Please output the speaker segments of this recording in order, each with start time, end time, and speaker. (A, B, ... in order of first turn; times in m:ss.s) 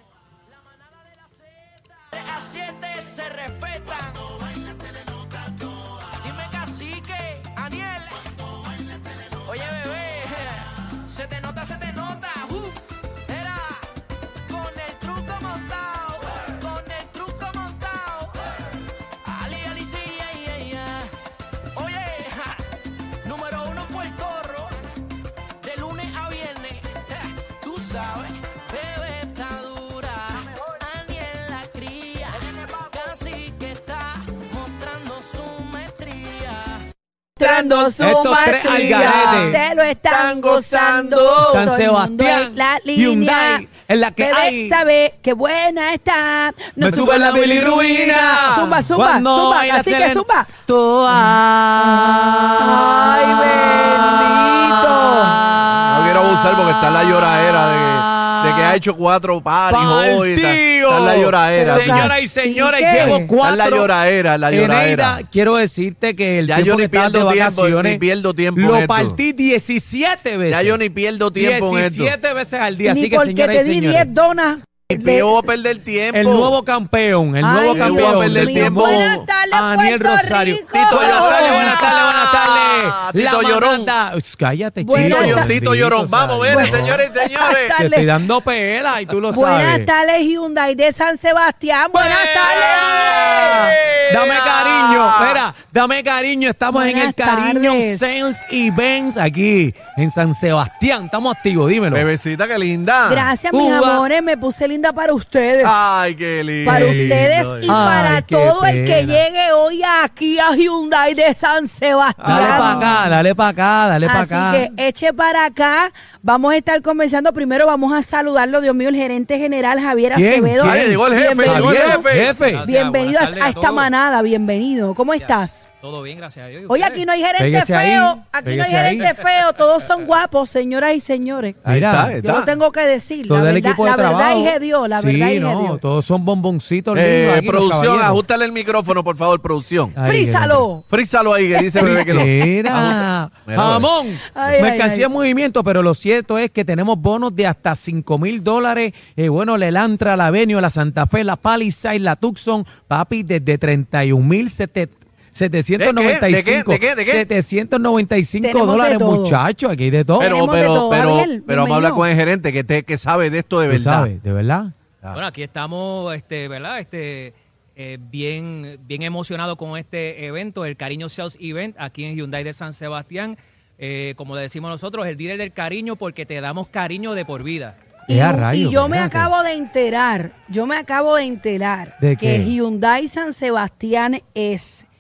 0:00.5-0:04.8 A
0:05.5-0:08.5 A
0:09.2-0:13.9 A
0:14.5-0:18.5 A
0:19.2-0:21.2 A
0:21.7-0:22.7 A
0:23.2-0:24.8 A
0:25.6-0:36.9 A
0:37.4-0:41.6 B
0:37.4-0:43.7 C
0:38.0-0:39.6 D
0:41.5-0:44.8 D
0:44.2-0:47.5 C
0:46.8-0:55.7 D
0:47.0-0:48.7 B
0:48.5-0:50.5 C
0:52.6-0:55.4 C
0:55.8-1:02.2 B
0:58.1-0:58.8 D
0:59.7-1:03.9 D
1:01.6-1:03.3 C
1:03.4-1:05.2 B
1:04.5-1:08.0 D
1:06.5-1:09.2 B
1:08.6-1:10.8 D
1:10.5-1:12.1 B
1:11.4-1:14.1 D
1:12.8-1:15.3 C
1:15.0-1:16.6 B
1:16.1-1:27.0 D
1:17.4-1:21.9 C
1:17.7-1:19.3 B
1:20.7-1:23.9 B
1:24.8-1:25.5 C
1:24.9-1:27.8 B
1:26.5-1:28.1 C
1:27.8-1:29.9 D
1:29.3-1:33.7 C
1:31.9-1:42.1 D
1:32.7-1:35.4 B
1:36.7-1:38.2 C
1:41.9-1:43.3 B
1:43.1-1:45.8 C
1:43.5-1:44.0 D
1:45.6-1:47.8 B
1:46.6-1:49.2 D
1:46.6-1:53.0 C
1:52.2-1:53.0 B
1:52.2-1:54.7 D
1:54.0-2:02.1 C
2:00.1-2:02.6 D
2:00.6-2:02.4 B
2:02.1-2:03.9 E
2:02.6-2:05.6 C
2:05.2-2:07.0 E
2:06.7-2:11.6 C
2:07.4-2:09.1 D
2:11.6-2:12.2 D
2:11.7-2:12.5 B
2:12.2-2:15.8 C
2:13.3-2:18.2 D
2:16.9-2:20.0 B
2:20.0-2:20.7 D
2:20.0-2:20.9 C
2:20.9-2:23.9 B
2:21.5-2:22.2 C
2:21.8-2:40.3 D
2:24.3-2:25.1 C
2:35.8-2:37.3 B
2:38.4-2:39.4 C
2:40.2-2:44.1 B
2:40.2-2:42.1 C
2:43.7-2:44.7 D
2:45.1-2:57.8 E
2:58.1-2:59.3 D
2:58.1-3:04.9 C
3:02.0-3:02.5 D